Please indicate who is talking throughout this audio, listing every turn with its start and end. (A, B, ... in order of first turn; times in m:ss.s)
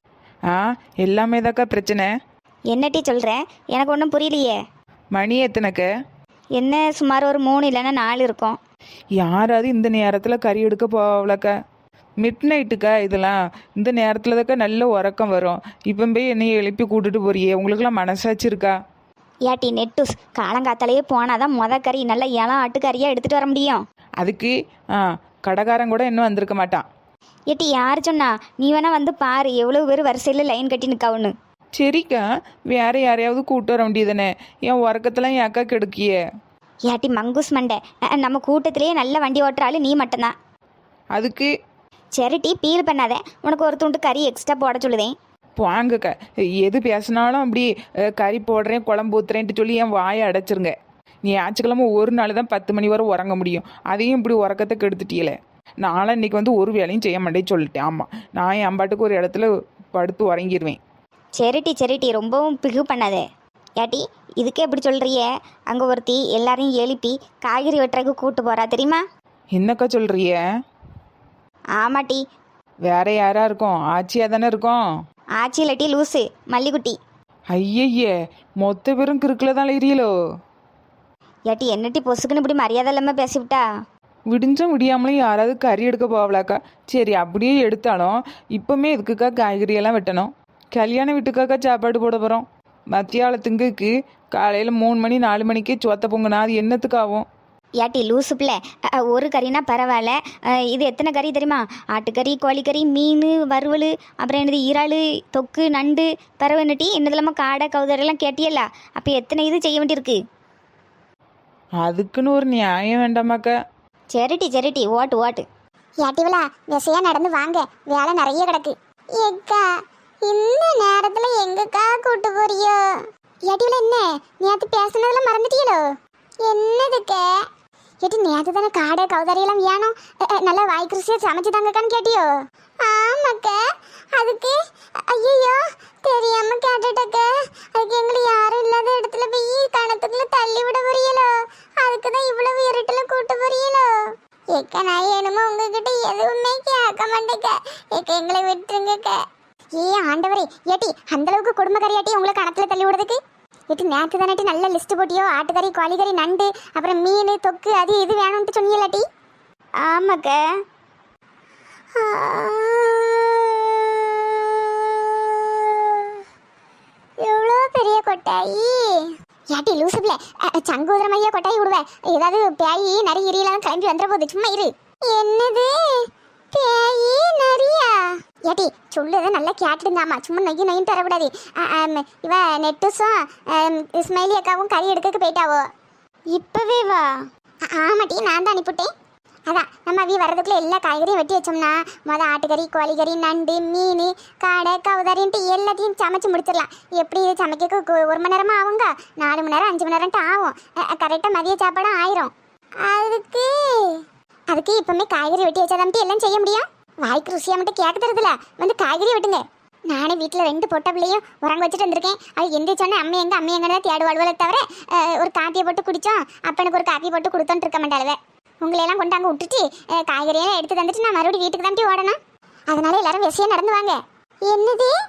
0:00.5-0:02.1 A
0:02.7-0:04.6 B
0:05.1-0:05.9 A
0:06.6-0:08.6 B
0:09.2-0:11.5 A
0:12.2-0:18.8 A
0:19.5-0:23.8 B
0:24.2-0:26.8 A
0:27.5-0:31.3 B
0:31.8-0:36.2 A
0:36.9-0:40.3 B
0:41.1-0:41.5 A
0:42.2-0:45.1 B
0:45.6-0:50.7 A
0:51.3-1:00.8 A
1:01.4-1:03.2 B
1:03.8-1:09.0 B
1:09.6-1:10.4 A
1:11.8-1:12.2 B
1:12.9-1:14.8 A
1:15.4-1:17.0 B
1:17.5-1:20.1 A
1:21.5-1:23.6 B
1:24.3-1:37.3 A
1:37.8-1:40.2 B
1:40.7-1:50.2 B
1:51.8-1:53.6 A
1:54.1-1:55.4 B
1:56.0-1:59.6 C
2:00.2-2:02.8 C
2:03.5-2:05.8 C
2:06.4-2:07.3 C
2:08.0-2:13.6 C
2:14.1-2:23.9 C
2:24.5-2:29.2 C
2:29.8-2:33.2 C
2:33.7-2:39.0 C
2:39.8-2:40.4 B
2:42.0-2:43.7 C
2:45.3-2:46.1 C
2:47.2-3:05.7 C
3:06.3-3:07.1 B
3:07.7-3:08.9 C
3:09.5-3:22.3 C
3:22.8-3:42.2 C
3:42.7-3:44.9 C